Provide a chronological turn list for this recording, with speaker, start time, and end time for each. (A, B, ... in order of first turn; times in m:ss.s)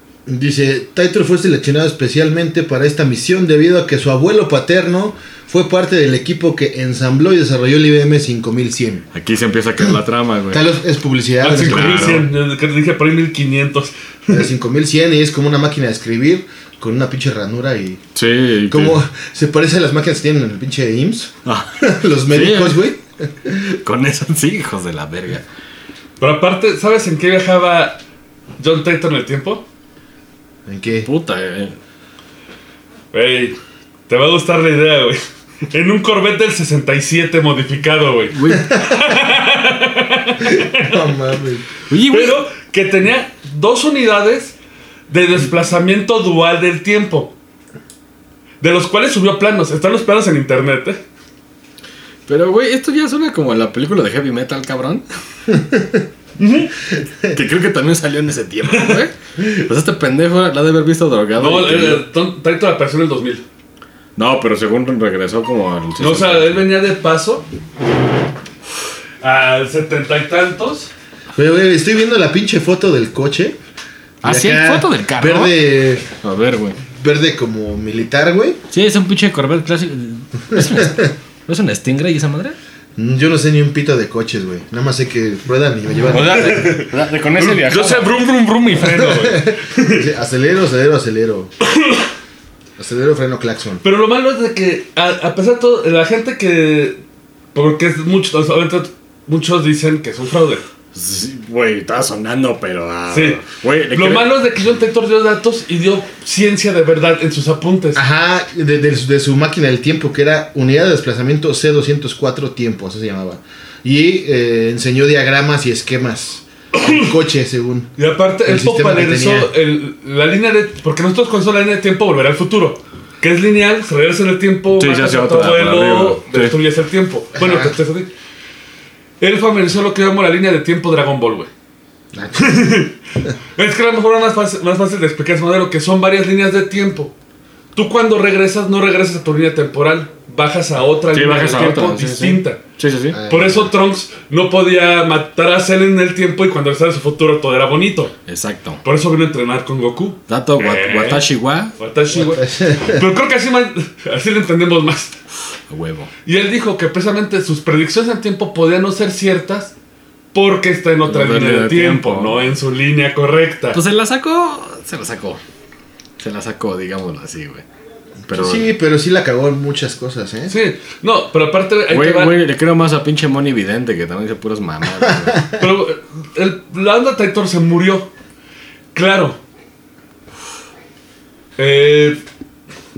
0:00.2-0:09.0 A
0:09.1-0:10.6 B
0:10.5-0:12.2 A
0:11.4-0:14.4 C
0:11.6-0:12.3 B
0:14.3-0:18.0 A
0:18.1-0:19.0 B
0:18.7-0:23.7 A
0:21.4-0:22.9 B
0:23.8-0:25.4 B
0:26.2-0:28.0 C
0:28.6-0:29.6 C
0:30.6-0:31.1 A
0:31.0-0:31.8 B
0:33.1-0:41.0 C
0:38.3-0:38.7 B
0:40.5-0:41.6 A
0:41.9-0:42.4 B
0:42.0-0:44.5 C
0:45.1-0:47.3 C
0:48.6-0:51.0 C
0:52.3-0:55.0 B
0:55.5-0:56.0 A
0:56.4-0:56.7 C
0:57.3-1:02.0 B
0:58.7-0:59.0 C
1:01.4-1:03.4 C
1:04.2-1:06.6 B
1:06.0-1:07.4 C
1:09.2-1:10.9 C
1:11.3-1:13.6 A
1:14.2-1:16.0 A
1:14.2-1:16.8 B
1:16.9-1:18.6 A
1:18.7-1:22.6 B
1:20.5-1:21.1 A
1:23.0-1:26.6 A
1:26.0-1:28.2 B
1:26.3-1:30.0 C
1:28.8-1:31.5 A
1:31.6-1:32.1 C
1:32.8-1:33.8 A
1:33.8-1:37.0 C
1:37.5-1:40.6 C
1:40.9-1:44.3 B
1:43.1-1:48.0 C
1:47.9-1:57.9 A
1:56.7-1:57.1 C
1:58.0-2:08.1 C
1:58.4-1:59.5 A
2:04.8-2:06.6 B
2:07.3-2:07.8 A
2:09.2-2:11.5 C
2:12.1-2:12.6 A
2:12.3-2:12.9 C
2:13.6-2:17.1 C
2:17.7-2:22.6 C
2:21.1-2:23.2 B
2:23.1-2:23.7 A
2:23.3-2:28.1 C
2:28.2-2:28.8 B
2:28.8-2:35.2 C
2:30.3-2:31.7 B
2:32.1-2:33.0 A
2:35.7-2:36.1 B
2:36.2-2:39.7 C
2:40.3-2:43.8 C
2:41.0-2:42.5 B
2:43.7-2:45.4 B
2:46.2-2:47.6 B
2:48.3-2:48.7 B
2:48.3-2:50.6 A
2:50.5-2:52.4 C
2:51.9-2:55.4 B
2:55.1-2:55.6 A
2:55.6-2:58.1 C
2:58.9-2:59.4 C
3:01.6-3:02.2 C